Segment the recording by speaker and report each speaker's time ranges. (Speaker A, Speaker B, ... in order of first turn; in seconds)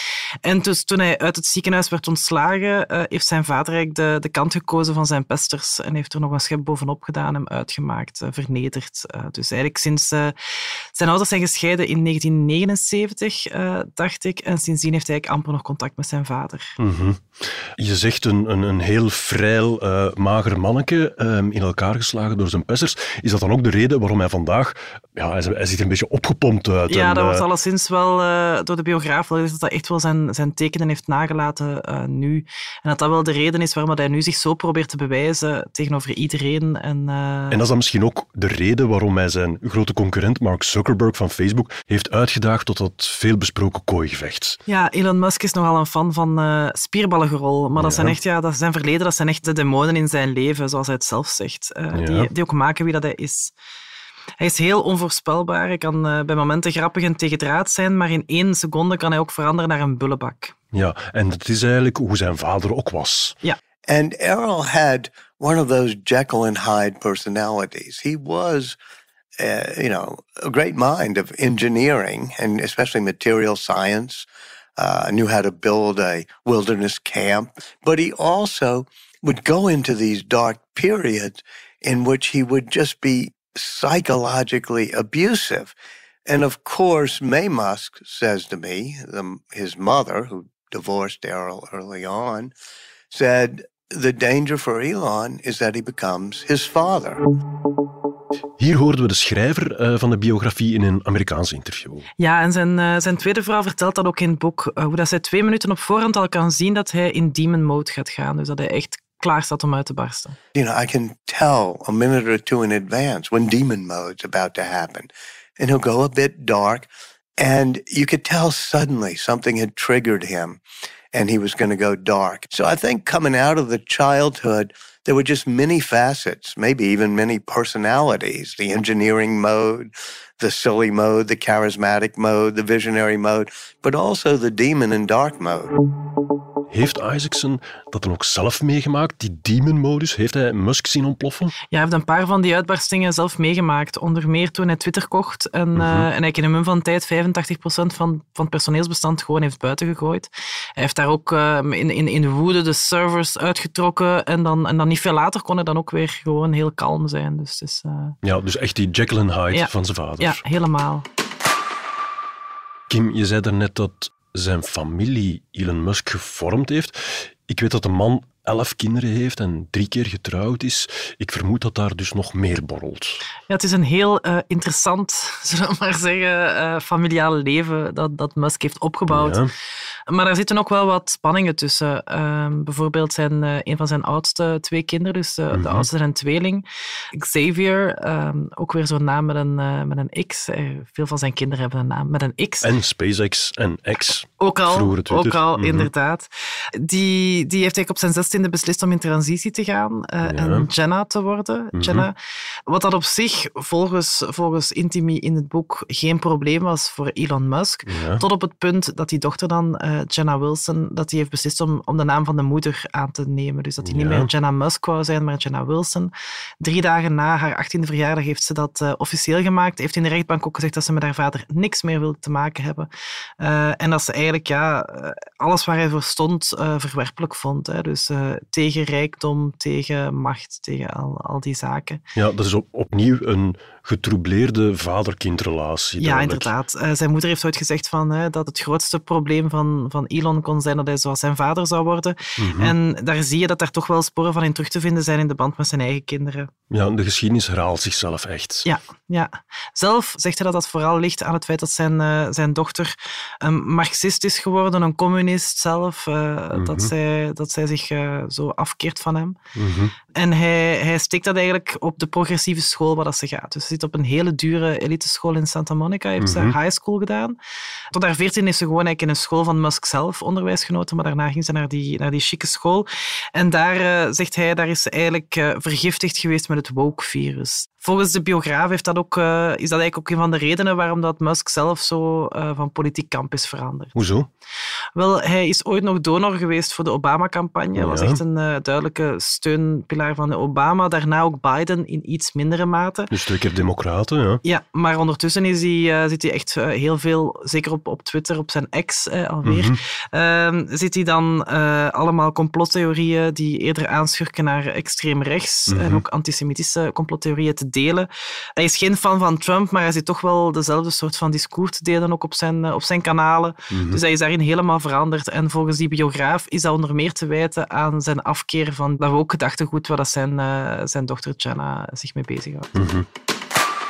Speaker A: 0.4-16.7, 26.9-37.6, 44.7-53.5, 54.4-60.5, 102.2-110.4, 141.7-158.2, 159.5-161.1, 173.5-179.4, 180.1-192.7, 194.4-202.2, 202.7-222.9, 223.4-232.0, 236.0-246.5, 248.7-259.4, 260.1-267.4, 267.9-283.9, 284.9-293.1, 294.4-322.7
Speaker B: 16.8-27.5, 37.5-44.6, 47.8-48.2, 51.9-52.3, 60.7-63.4, 98.6-102.1, 136.7-141.5, 145.8-146.1, 158.2-160.4, 162.9-173.2, 179.1-179.5, 185.5-185.9, 192.6-195.9, 200.2-200.7, 201.7-202.1, 207.9-208.2, 213.8-214.3, 232.2-236.5, 242.4-242.8, 246.7-248.7, 256.5-256.9, 259.6-259.9, 266.2-266.6, 283.9-284.3, 287.8-288.2, 293.1-294.4, 299.4-299.8, 305.7-306.0, 313.7-314.0, 322.8-323.1
Speaker C: 63.9-68.8, 69.4-74.3, 74.8-85.7, 86.3-92.5, 93.1-97.2, 110.5-120.6, 121.1-135.7